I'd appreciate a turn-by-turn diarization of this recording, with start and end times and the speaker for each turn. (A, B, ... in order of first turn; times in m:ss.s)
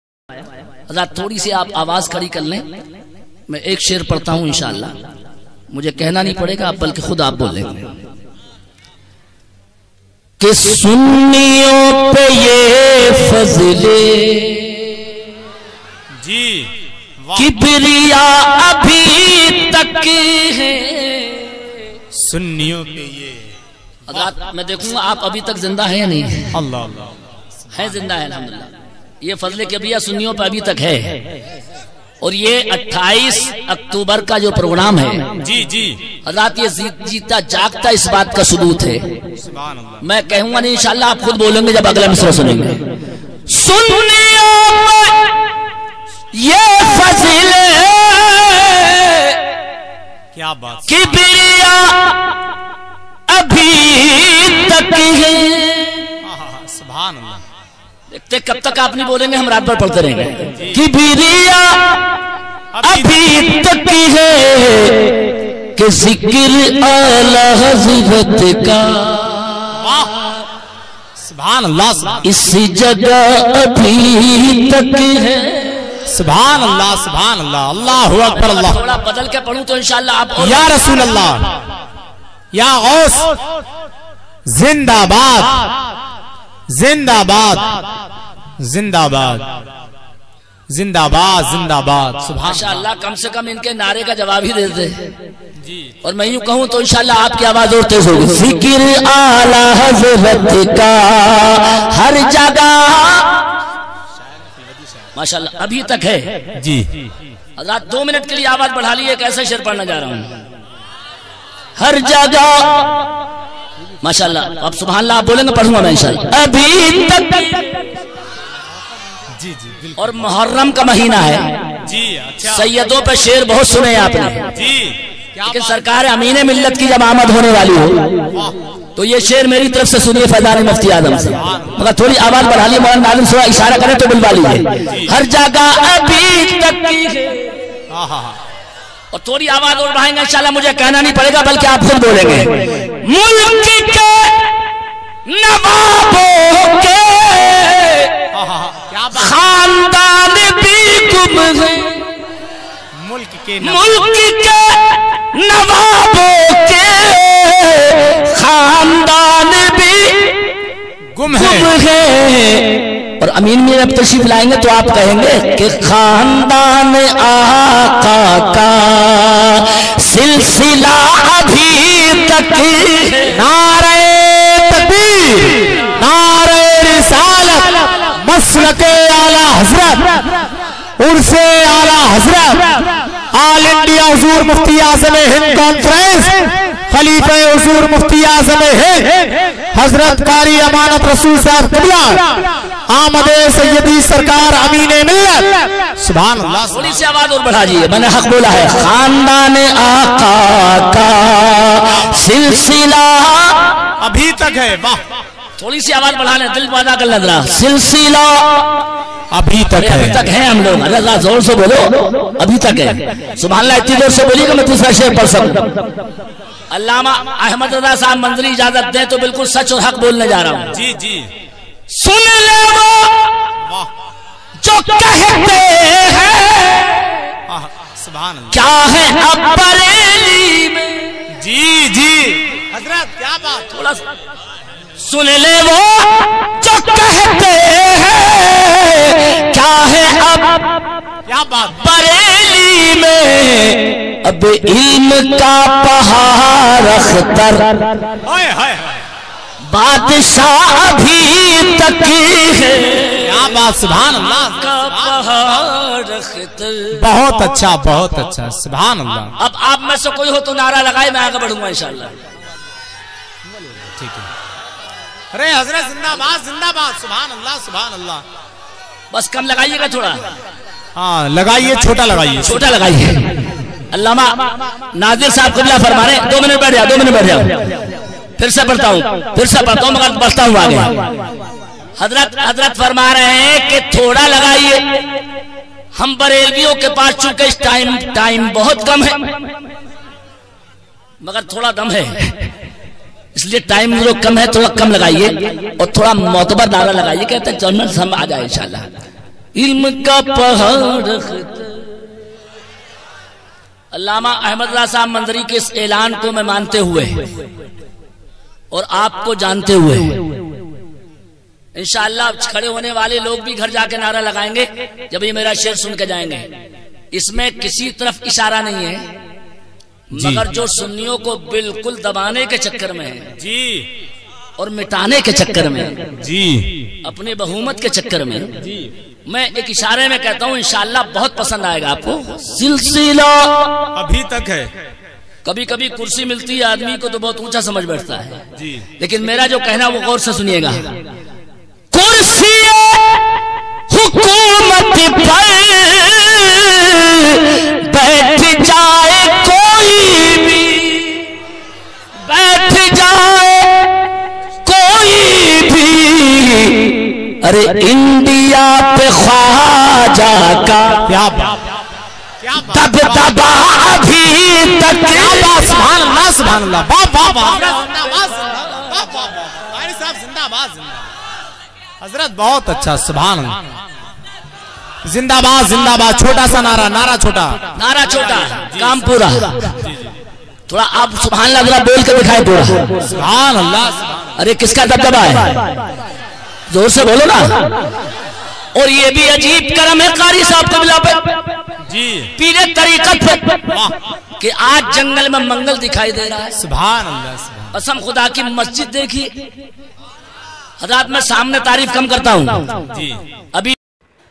0:00.9-0:02.7 A
0:03.5-0:04.9 A
0:05.7-0:07.9 A
0:10.4-0:15.0 A
0:16.2-0:17.5 B
0:17.4-0:21.7 A
0:22.1-0:23.4 B
0:24.1-0:26.6 A
0:26.5-0:27.2 B
0:27.7-0:28.7 A
0:29.2-0:31.2 A
0:32.2-0:35.3 A
0:35.4-0:36.1 B
0:36.2-0:39.1 A
0:39.4-0:40.0 B
0:40.0-0:42.8 A
0:43.5-0:45.5 A
0:46.3-0:49.4 A
0:50.3-0:51.2 B
0:50.9-0:52.4 A
0:53.3-0:56.1 A
0:56.2-0:57.4 B
0:58.1-1:02.2 A
1:00.5-1:00.8 B
1:02.8-1:03.2 B
1:02.8-1:10.1 A
1:09.7-1:10.2 B
1:11.2-1:12.3 B
1:12.2-1:16.0 A
1:16.1-1:18.8 B
1:18.4-1:21.0 A
1:20.4-1:21.6 B
1:22.5-1:23.4 B
1:24.5-1:25.8 B
1:26.7-1:27.9 B
1:28.6-1:29.6 B
1:30.7-1:32.8 B
1:32.4-1:35.1 A
1:35.6-1:35.9 B
1:36.0-1:43.5 A
1:45.2-1:46.4 A
1:46.6-1:46.9 B
1:47.6-1:50.3 A
1:51.8-1:53.1 A
1:54.0-1:57.9 A
1:59.4-2:00.1 B
2:00.0-2:01.6 A
2:01.8-2:02.7 B
2:02.4-2:04.5 A
2:04.5-2:05.8 B
2:05.5-2:08.3 A
2:09.0-2:17.7 A
2:11.3-2:11.8 B
2:14.9-2:15.2 B
2:17.9-2:18.4 B
2:19.1-2:24.6 A
2:25.3-2:28.2 A
2:28.3-2:29.4 B
2:29.1-2:32.2 A
2:32.9-2:33.9 B
2:33.6-2:40.6 A
2:41.1-2:41.8 B
2:41.3-2:53.4 A
2:53.3-3:00.2 B
3:01.0-3:17.0 B
3:16.7-3:23.8 A
3:24.0-3:25.0 B
3:25.6-3:28.8 A
3:29.3-3:30.3 B
3:29.8-3:35.8 A
3:36.7-3:40.8 A
3:40.7-3:41.3 B
3:41.9-3:43.5 A
3:43.6-3:43.9 B
3:44.6-3:47.3 A
3:47.5-3:48.7 B
3:48.5-3:51.2 A
3:51.3-3:53.7 B
3:53.7-3:54.0 A
3:55.0-4:00.8 A
4:01.3-4:01.8 B
4:01.7-4:07.9 A
4:08.2-4:09.0 B
4:09.7-4:13.5 A
4:13.2-4:15.2 B
4:14.3-4:17.1 A
4:16.9-4:19.3 B
4:19.4-4:22.2 A
4:23.6-4:24.3 B
4:25.3-4:28.2 B
4:29.1-4:30.2 A
4:31.0-4:32.7 B
4:32.4-4:37.8 A
4:38.4-4:41.0 A
4:42.0-4:45.1 A
4:46.0-4:49.3 A
4:51.2-4:52.5 A
4:53.4-4:58.9 A
4:59.6-5:01.9 A
5:03.9-5:07.4 A
5:08.7-5:10.4 A
5:11.8-5:16.5 A
5:17.1-5:19.1 A
5:20.1-5:23.3 A
5:20.1-5:20.5 B
5:23.4-5:23.9 B
5:24.6-5:26.1 A
5:26.2-5:26.9 B
5:27.0-5:28.5 A
5:28.6-5:28.9 B
5:29.3-5:33.9 A
5:34.0-5:34.7 B
5:35.4-5:38.4 A
5:38.6-5:38.9 B
5:39.0-5:41.0 A
5:41.9-5:51.4 A
5:52.2-5:54.1 A
5:54.6-6:01.1 A
6:01.1-6:01.8 B
6:02.4-6:03.4 B
6:02.6-6:05.7 A
6:05.1-6:11.1 B
6:12.0-6:13.8 B
6:15.0-6:17.7 B
6:17.8-6:19.8 A
6:18.7-6:19.0 B
6:19.7-6:20.1 B
6:20.7-6:22.9 A
6:23.0-6:24.2 B
6:24.4-6:25.8 A
6:26.7-6:27.7 A
6:28.8-6:31.4 A
6:31.8-6:32.3 B
6:32.4-6:33.7 A
6:34.4-6:36.6 A
6:36.6-6:37.8 B
6:37.7-6:39.3 A
6:40.8-6:42.8 A
6:42.9-6:43.2 B